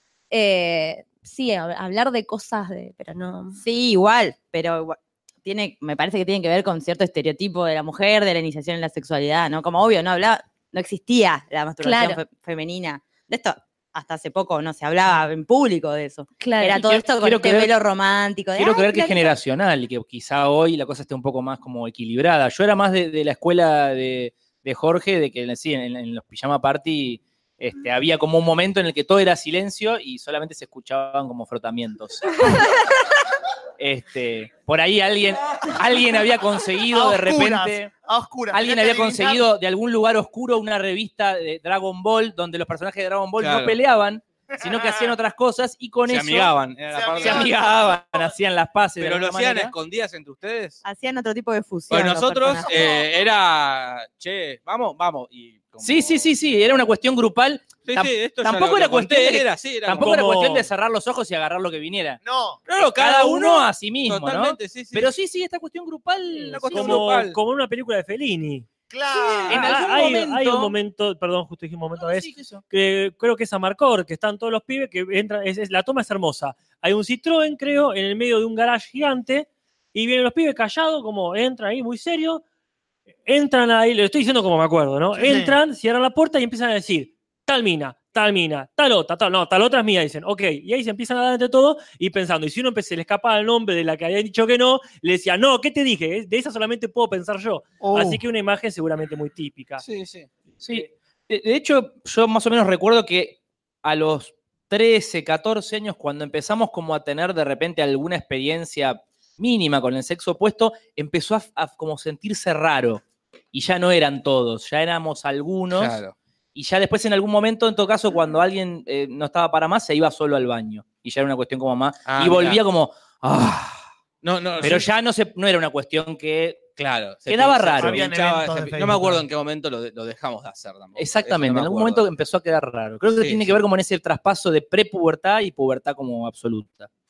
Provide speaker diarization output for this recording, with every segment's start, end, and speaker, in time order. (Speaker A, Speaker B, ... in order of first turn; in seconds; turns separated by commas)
Speaker A: 0.3-3.6, Speaker B: 3.6-19.3, Speaker A: 11.8-12.2, Speaker A: 16.4-17.0, Speaker C: 16.8-17.7, Speaker C: 18.6-32.6, Speaker C: 33.8-37.9, Speaker D: 36.9-39.5, Speaker C: 38.5-46.5, Speaker E: 43.4-43.8, Speaker D: 44.6-45.1, Speaker E: 46.1-47.7, Speaker D: 46.9-48.3, Speaker C: 47.2-49.7, Speaker E: 49.0-50.8, Speaker B: 50.8-53.0, Speaker E: 51.9-56.3, Speaker D: 52.7-53.0, Speaker C: 55.8-62.2, Speaker E: 57.8-60.2, Speaker F: 60.0-60.7, Speaker D: 62.2-62.6, Speaker E: 62.7-65.1, Speaker C: 62.8-67.1, Speaker E: 66.3-67.4, Speaker F: 66.7-68.7, Speaker D: 68.9-69.7, Speaker C: 69.2-70.7, Speaker F: 69.5-82.4, Speaker C: 72.0-72.6, Speaker F: 83.3-99.8, Speaker D: 85.1-85.6, Speaker D: 97.8-98.2, Speaker E: 99.9-100.3, Speaker C: 100.6-113.0, Speaker C: 113.5-116.0, Speaker E: 115.7-116.1, Speaker C: 116.5-123.8, Speaker E: 122.1-122.6, Speaker E: 124.2-124.9, Speaker C: 124.6-126.7, Speaker E: 126.8-132.1, Speaker C: 127.3-128.1, Speaker D: 127.8-129.2, Speaker C: 131.0-136.9, Speaker E: 133.2-133.6